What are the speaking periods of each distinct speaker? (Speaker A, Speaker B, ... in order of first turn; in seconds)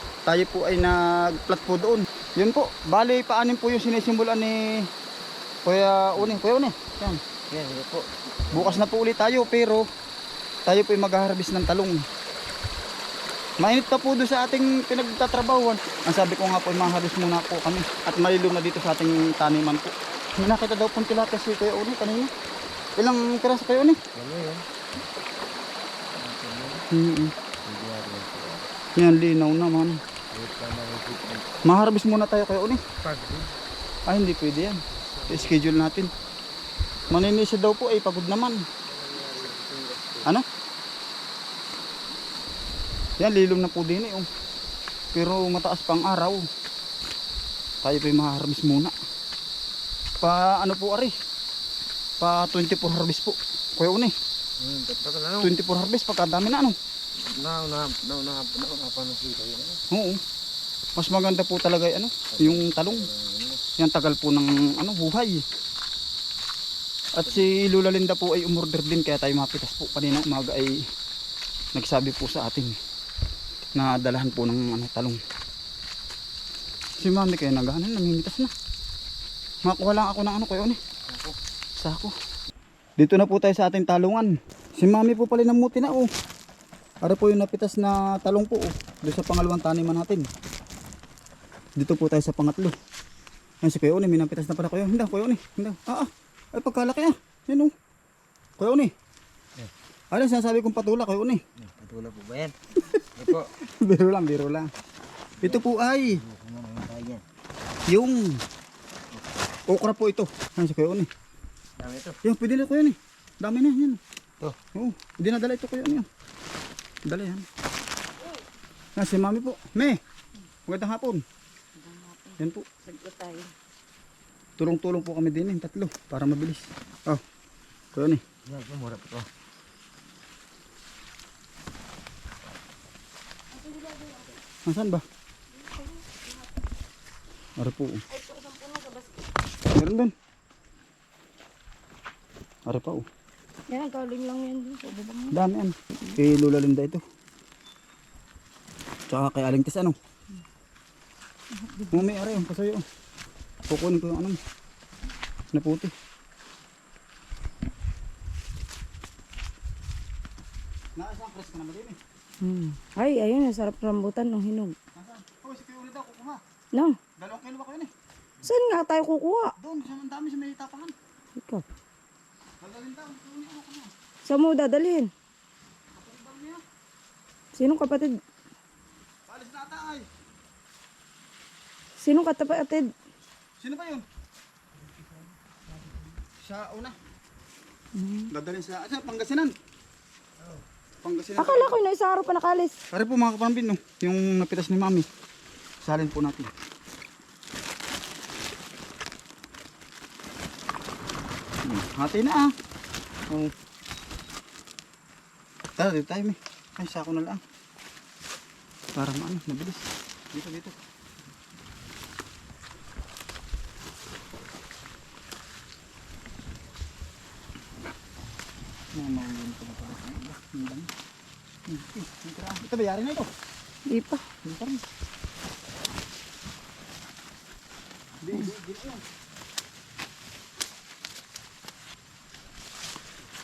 Speaker A: 0.2-4.9, 5.6-7.2, 8.5-9.8, 10.7-12.0, 13.6-22.3, 23.0-24.0, 26.9-27.3, 28.9-30.0, 31.6-32.8, 34.1-36.1, 37.1-38.6, 43.2-44.3, 45.1-46.4, 47.8-49.0, 50.2-51.1, 52.2-54.1, 55.4-56.8, 59.9-60.2, 61.0-63.1, 63.8-65.4, 67.1-70.8, 71.7-72.8, 73.7-75.2, 77.0-78.5, 79.6-80.8, 81.8-82.1, 83.0-86.1, 87.0-90.3, 91.8-92.7, 93.6-97.7, 98.6-98.9, 100.1-101.4, 102.8-104.7, 105.4-106.2, 107.9-108.4, 109.7-111.1, 112.2-114.0, 114.7-116.1, 117.0-117.5, 119.0-120.0, 120.7-121.2, 122.4-122.7, 124.6-127.2, 127.9-128.2, 134.6-135.0, 137.6-138.0, 139.7-140.1, 142.7-143.1, 145.3-147.0, 149.1-149.9, 151.9-152.8, 153.7-154.4, 155.5-155.9, 160.9-162.0, 164.9-166.4, 167.2-167.9, 169.6-170.9, 172.6-173.9, 175.9-176.6, 179.3-180.1, 183.6-184.1, 186.4-187.0, 188.3-189.5, 191.0-191.8, 192.9-195.1, 195.8-196.5, 201.6-202.5, 205.8-207.4, 208.9-210.7, 218.9-220.9, 221.7-223.3, 224.4-224.8, 228.2-229.0
Speaker B: 7.5-8.9, 24.1-24.6, 26.1-26.8, 27.6-28.6, 30.3-31.5, 33.0-33.5, 35.1-35.6, 38.9-40.3, 54.6-55.6, 57.2-59.8, 62.3-63.6, 81.1-81.3, 101.6-103.5, 105.4-107.2, 111.8-112.2, 128.4-129.3
Speaker C: 121.8-123.5, 133.5-134.3, 135.5-136.5, 138.1-139.2, 143.7-145.4, 151.6-152.1, 162.4-164.7, 168.4-169.5, 171.4-171.6, 174.2-175.1, 177.6-178.1, 182.0-182.9, 187.9-188.3, 191.4-192.8, 223.9-224.2